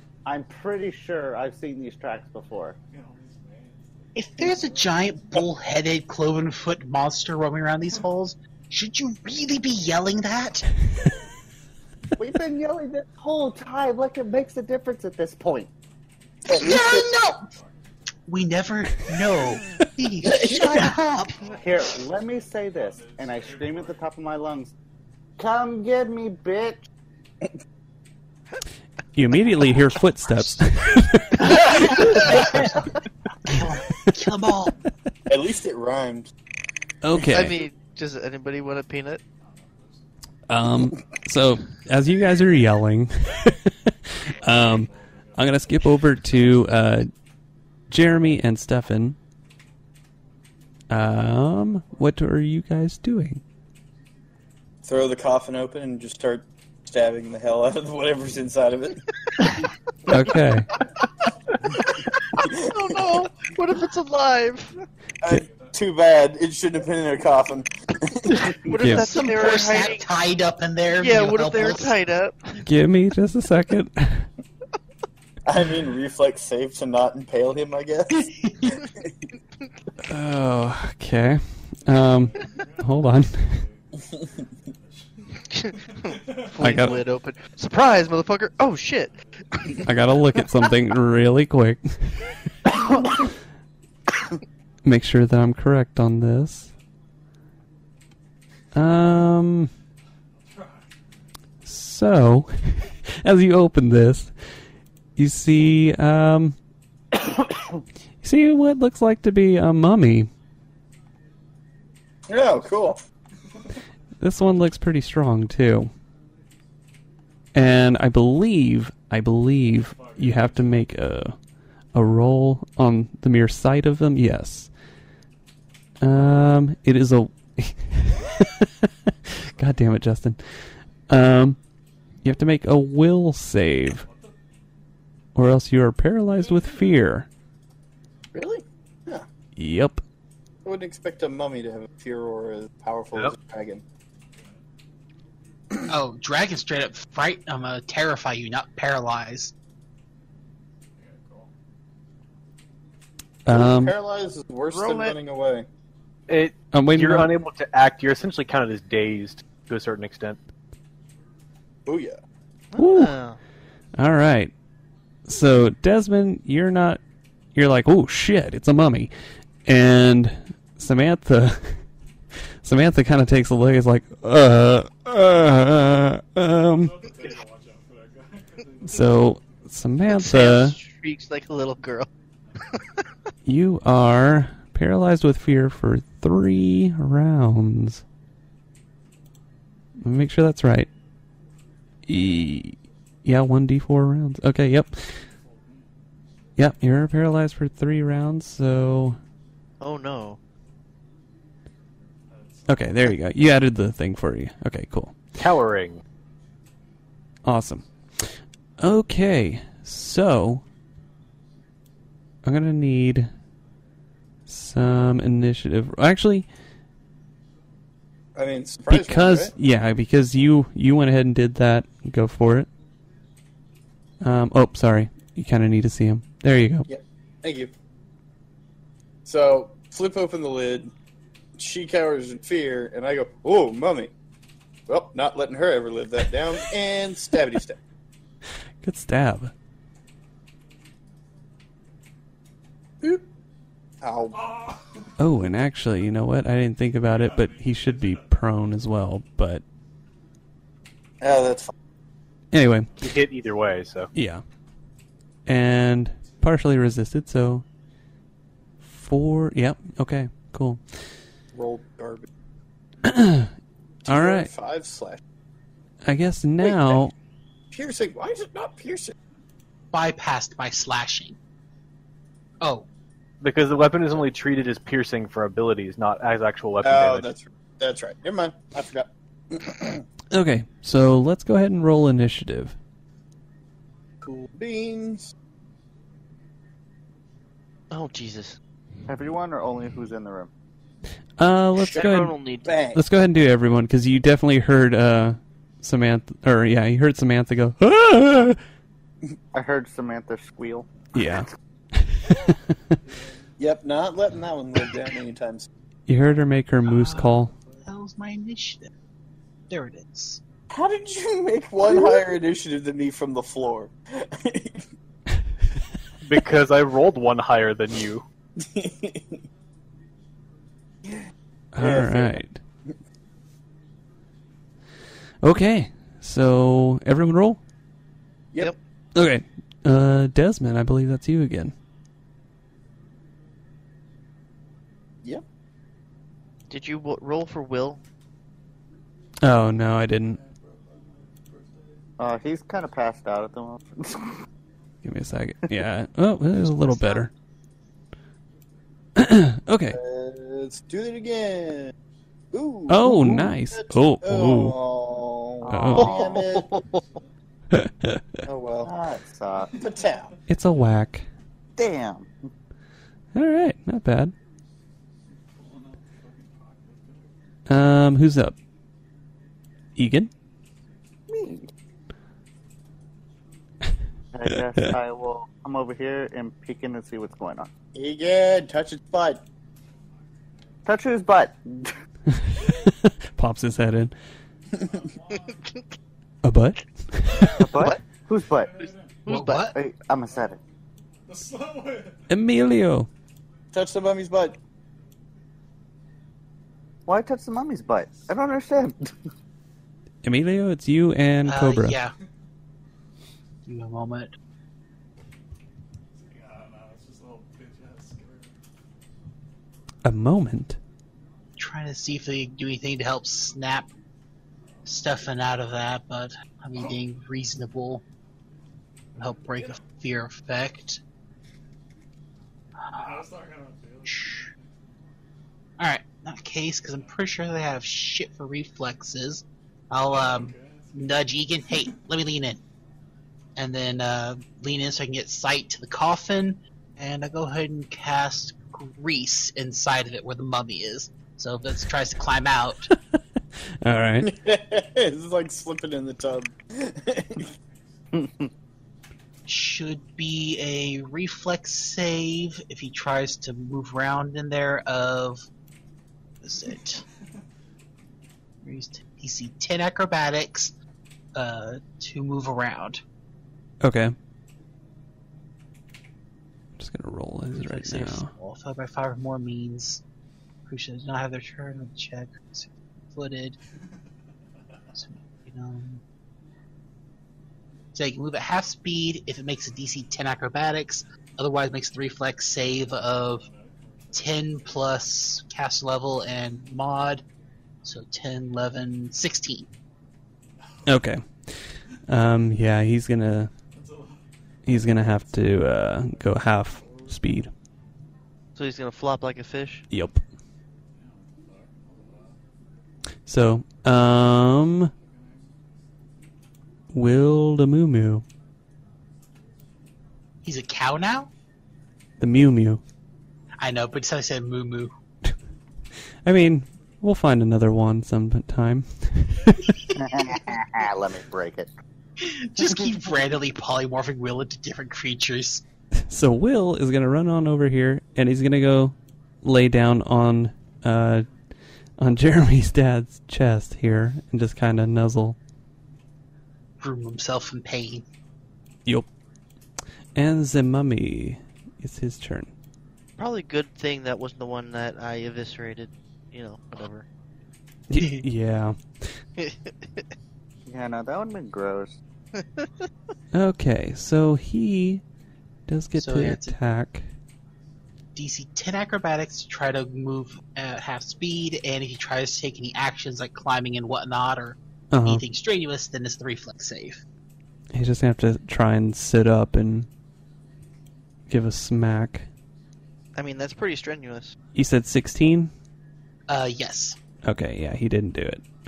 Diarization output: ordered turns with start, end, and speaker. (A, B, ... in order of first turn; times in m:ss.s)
0:00.3-0:02.8 A
0:02.9-0:05.2 B
0:04.2-0:10.7 C
0:11.0-0:11.3 B
0:12.2-0:15.7 A
0:16.5-0:17.5 C
0:16.6-0:16.9 D
0:16.7-0:18.1 B
0:18.3-0:21.5 C
0:20.3-0:20.9 D
0:21.4-0:24.1 B
0:21.4-0:24.7 A
0:25.4-0:26.8 A
0:29.2-0:31.6 E
0:30.3-0:30.6 C
0:31.4-0:32.7 C
0:33.4-0:34.7 C
0:35.3-0:36.3 D
0:37.0-0:37.6 E
0:37.2-0:39.2 F
0:39.4-0:40.1 B
0:40.5-0:47.1 E
0:40.8-0:41.3 B
0:42.1-0:42.6 B
0:44.2-0:46.8 B
0:47.9-0:49.2 E
0:50.9-0:53.4 E
0:54.8-0:59.0 D
1:00.1-1:00.7 E
1:02.4-1:04.8 F
1:02.4-1:03.0 D
1:05.2-1:08.5 D
1:05.3-1:05.8 B
1:08.6-1:10.0 F
1:08.8-1:09.1 E
1:09.0-1:12.0 C
1:11.0-1:12.6 F
1:12.6-1:14.3 E
1:15.4-1:18.8 D
1:20.1-1:23.6 E
1:22.1-1:27.0 B
1:25.6-1:29.7 F
1:26.6-1:27.0 E
1:28.7-1:29.9 B
1:29.8-1:32.2 E
1:34.8-1:36.7 E
1:38.7-1:39.7 E
1:40.4-1:40.9 B
1:41.6-1:44.3 E
1:45.2-1:46.6 E
1:48.2-1:50.3 E
1:52.3-1:53.0 D
1:54.2-1:55.9 E
1:57.6-2:01.4 E
1:59.7-2:00.9 B
2:01.9-2:04.7 E
2:06.0-2:10.4 E
2:11.1-2:11.6 E
2:12.2-2:14.1 E
2:13.9-2:14.3 B
2:15.4-2:17.3 E
2:16.4-2:16.9 B
2:18.3-2:19.2 D
2:19.6-2:20.0 E
2:20.6-2:23.8 D
2:24.3-2:24.6 B
2:25.9-2:29.5 C
2:31.0-2:31.5 B
2:33.5-2:34.0 E
2:33.5-2:35.7 D
2:34.7-2:35.2 F
2:36.3-2:40.4 G
2:36.7-2:37.3 E
2:41.9-2:42.2 D
2:42.7-2:43.4 F
2:42.8-2:43.1 E
2:44.0-2:44.5 E
2:45.3-2:47.0 E
2:47.6-2:49.1 E
2:49.7-2:51.8 E
2:52.6-2:56.9 E
2:56.8-2:59.6 B
2:58.9-3:00.8 E
3:00.1-3:02.1 F
3:03.5-3:08.0 E
3:10.0-3:10.9 E
3:12.1-3:15.2 E
3:15.2-3:15.9 B
3:16.6-3:19.2 E
3:19.8-3:20.4 F
3:22.3-3:22.9 B
3:22.7-3:25.3 E
3:25.4-3:26.0 G
3:27.4-3:28.3 E
3:28.8-3:30.6 E
3:32.4-3:33.3 E
3:34.5-3:36.5 E
3:38.4-3:39.5 D
3:38.9-3:42.7 E
3:44.2-3:46.9 E
3:46.9-3:47.7 D
3:49.3-3:50.9 D
3:51.6-3:54.1 D
3:54.9-3:57.8 D
3:58.8-3:59.5 E
4:04.0-4:04.4 D
4:04.3-4:05.1 B
4:05.2-4:09.6 E
4:07.0-4:08.4 B
4:11.2-4:11.7 D
4:12.5-4:12.9 E
4:13.0-4:14.1 G
4:14.1-4:14.4 E
4:15.5-4:17.6 E
4:18.8-4:20.8 E
4:21.5-4:22.3 D
4:23.0-4:23.5 E
4:24.0-4:25.2 D
4:24.1-4:24.5 E
4:26.0-4:27.1 E
4:26.6-4:27.0 D
4:27.7-4:29.1 D
4:29.9-4:31.4 C
4:32.6-4:32.9 C
4:33.4-4:37.3 G
4:36.8-4:40.0 D
4:40.3-4:42.8 E
4:44.2-4:45.3 D
4:47.9-4:48.6 F
4:49.1-4:50.5 A
4:51.4-4:52.4 E
4:51.8-4:53.0 D
4:51.9-4:52.7 F
4:52.9-4:58.6 E
4:59.5-5:00.9 A
5:01.1-5:01.5 E
5:02.0-5:02.4 E
5:03.0-5:03.5 B
5:03.6-5:05.7 D
5:06.1-5:07.5 E
5:06.9-5:08.9 C
5:09.7-5:10.4 C
5:10.7-5:14.8 D
5:16.2-5:18.2 G
5:18.6-5:19.4 D
5:21.7-5:22.6 E
5:21.8-5:22.4 D
5:25.4-5:27.6 E
5:29.2-5:31.7 E
5:36.7-5:38.0 F
5:39.4-5:40.4 E
5:40.2-5:42.0 B
5:42.2-5:44.4 A
5:45.0-5:47.3 E
5:49.2-5:50.0 E
5:49.9-5:51.9 D
5:52.5-5:56.7 D
5:52.9-5:54.8 E
5:55.6-5:56.7 A
5:55.7-5:56.2 E
5:56.9-5:57.2 B
5:57.7-5:58.2 E
5:58.5-5:58.9 D
5:58.8-5:59.8 A
5:59.8-6:00.3 D
6:00.5-6:01.3 E
6:01.8-6:02.3 A
6:03.3-6:04.3 E
6:05.3-6:07.4 B
6:07.7-6:08.6 E
6:10.0-6:10.3 E
6:11.3-6:11.7 A
6:14.3-6:17.7 A
6:17.9-6:19.4 D
6:20.4-6:21.1 B
6:20.9-6:21.9 A
6:22.4-6:24.1 E
6:24.7-6:25.7 B
6:26.4-6:27.7 E
6:27.6-6:28.9 A
6:28.3-6:29.3 B
6:29.3-6:29.7 F
6:29.3-6:29.8 C
6:29.7-6:30.6 A
6:30.3-6:30.5 B
6:31.3-6:32.3 B
6:32.3-6:33.1 E
6:33.7-6:34.6 D
6:37.1-6:39.1 A
6:40.2-6:42.0 E
6:41.4-6:42.1 C
6:43.7-6:44.3 C
6:46.2-6:48.6 B
6:50.0-6:50.8 E
6:51.6-6:53.9 C
6:54.8-6:55.1 B
6:54.9-6:58.0 C
6:59.2-7:01.0 C
6:59.3-7:00.0 B
7:02.8-7:03.2 C
7:02.9-7:04.7 B
7:04.1-7:04.5 C
7:05.8-7:12.6 C
7:10.1-7:12.0 B
7:13.6-7:22.9 C
7:23.8-7:24.3 E
7:24.2-7:27.5 D
7:28.1-7:28.5 A
7:29.5-7:35.5 C
7:36.4-7:37.0 C
7:38.6-7:40.7 C
7:41.4-7:43.0 C
7:43.8-7:44.2 E
7:46.8-7:48.3 E
7:47.5-7:50.0 C
7:50.7-7:53.6 C
7:55.0-7:56.0 C
7:58.0-8:03.5 C
8:02.7-8:05.0 B
8:04.1-8:07.2 C
8:07.8-8:09.7 C
8:10.6-8:11.0 B
8:10.9-8:11.3 E
8:12.1-8:13.5 E
8:13.7-8:17.2 B
8:14.7-8:17.5 E
8:18.6-8:19.8 F
8:19.9-8:20.2 E
8:21.0-8:22.4 B
8:23.3-8:24.9 E
8:25.0-8:25.6 B
8:26.9-8:28.2 E
8:30.4-8:31.3 C
8:32.2-8:32.8 E
8:33.6-8:34.9 C
8:36.2-8:39.7 E
8:40.0-8:41.7 A
8:42.2-8:45.6 C
8:46.1-8:51.3 E
8:52.0-8:55.4 E
8:56.8-8:58.1 C
9:00.2-9:02.5 E
9:03.2-9:07.0 F
9:07.9-9:08.8 E
9:08.0-9:08.2 C
9:09.4-9:09.7 F
9:10.7-9:12.0 A
9:12.4-9:12.7 F
9:13.3-9:15.0 E
9:15.7-9:17.1 E
9:16.0-9:16.6 C
9:18.2-9:27.0 C
9:24.9-9:25.2 E
9:27.7-9:29.9 E
9:31.3-9:32.3 E
9:33.2-9:34.4 F
9:34.6-9:35.5 E
9:36.3-9:37.0 C
9:37.2-9:38.4 E